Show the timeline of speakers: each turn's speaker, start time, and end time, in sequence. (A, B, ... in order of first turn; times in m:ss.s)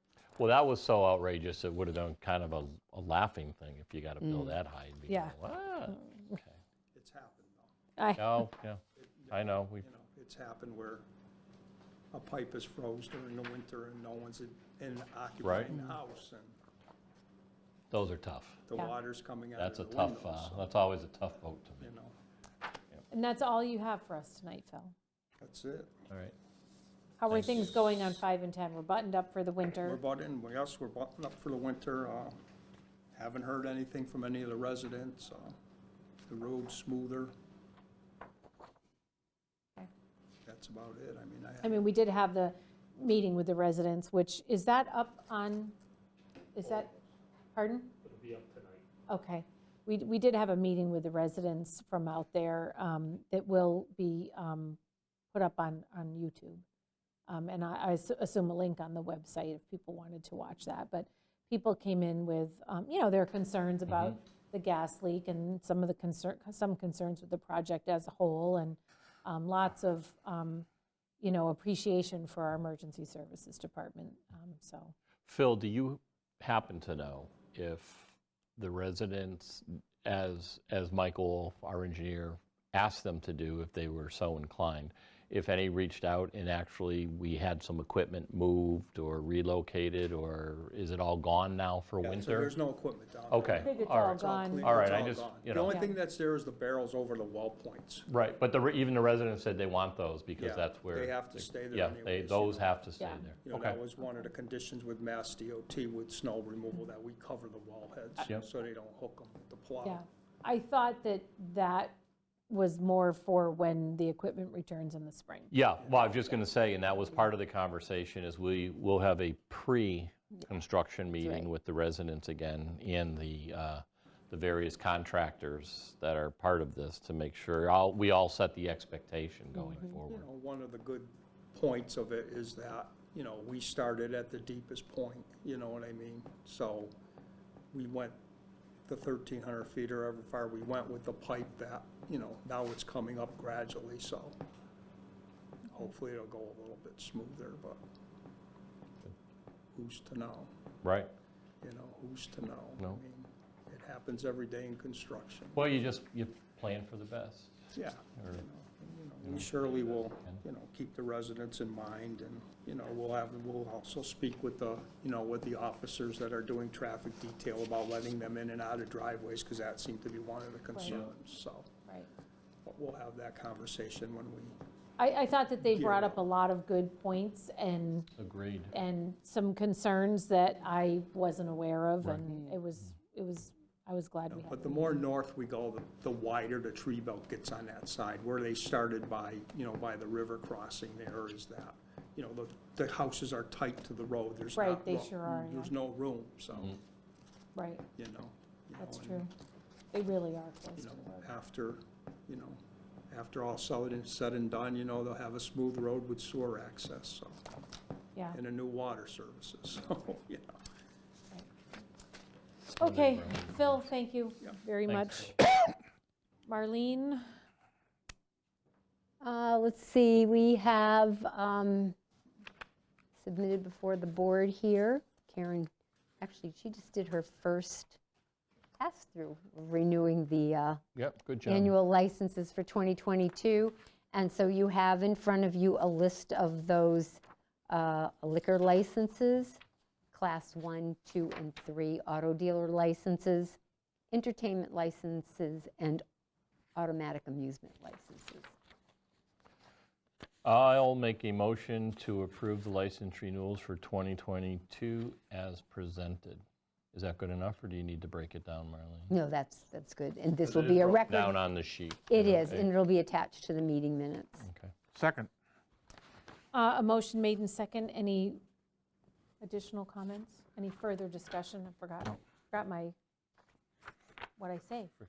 0:00.4-0:06.6 A
0:05.1-0:05.4 B
0:06.9-0:07.7 C
0:08.0-0:08.5 B
0:08.2-0:09.8 A
0:09.0-0:11.0 C
0:12.1-0:16.5 C
0:15.4-0:15.8 A
0:17.9-0:18.6 A
0:18.7-0:20.7 C
0:19.5-0:21.9 A
0:21.8-0:22.1 C
0:23.1-0:24.9 B
0:25.4-0:26.0 C
0:26.1-0:26.3 A
0:27.2-0:30.0 B
0:27.3-0:27.8 A
0:29.8-0:32.4 C
0:33.1-0:35.5 C
0:36.3-0:37.3 C
0:40.4-0:41.9 C
0:41.6-0:45.7 B
0:46.5-0:46.9 B
0:47.5-0:47.9 B
0:48.1-0:48.8 A
0:49.1-0:54.8 B
0:55.3-0:56.6 B
0:57.3-1:10.7 B
1:03.9-1:04.1 A
1:11.2-1:14.9 B
1:15.2-1:32.5 A
1:32.0-1:38.1 C
1:33.3-1:35.8 A
1:33.5-1:34.9 B
1:35.6-1:35.9 B
1:38.1-1:43.8 A
1:40.4-1:42.8 C
1:43.0-1:43.3 B
1:43.4-1:50.0 C
1:49.8-1:52.0 B
1:52.5-1:55.5 B
1:55.5-2:10.2 A
2:01.2-2:01.5 D
2:09.8-2:16.9 C
2:17.7-2:18.2 C
2:18.8-2:24.4 C
2:25.7-2:27.8 C
2:29.7-2:30.5 C
2:30.8-2:31.1 A
2:31.6-2:35.7 C
2:35.5-2:37.6 A
2:37.7-2:51.7 C
2:38.2-2:38.4 A
2:39.2-2:40.4 A
2:50.7-2:51.0 B
2:51.8-2:52.1 B
2:52.6-2:54.6 C
2:55.0-2:58.1 B
2:55.6-2:56.2 C
2:58.2-2:58.7 A
2:58.7-3:05.0 B
3:02.0-3:02.3 A
3:04.3-3:16.8 C
3:14.6-3:15.7 B
3:17.5-3:17.8 B
3:18.0-3:19.3 C
3:18.8-3:19.3 B
3:19.9-3:21.2 B
3:20.8-3:27.4 C
3:28.3-3:30.6 C
3:32.7-3:33.8 A
3:32.8-3:35.4 B
3:34.9-3:35.3 A
3:36.5-3:37.2 B
3:39.2-3:42.0 D
3:43.2-3:45.7 D
3:46.2-3:48.0 D
3:48.8-3:50.8 D
3:50.9-3:51.7 A
3:51.4-3:59.6 D
4:00.1-4:03.6 D
4:04.1-4:06.0 D
4:06.7-4:08.5 D
4:10.4-4:19.1 A
4:19.1-4:21.4 D
4:20.4-4:22.7 A
4:22.1-4:24.5 D
4:24.4-4:24.7 A
4:26.5-4:28.4 B
4:29.4-4:32.9 B
4:34.4-4:34.9 B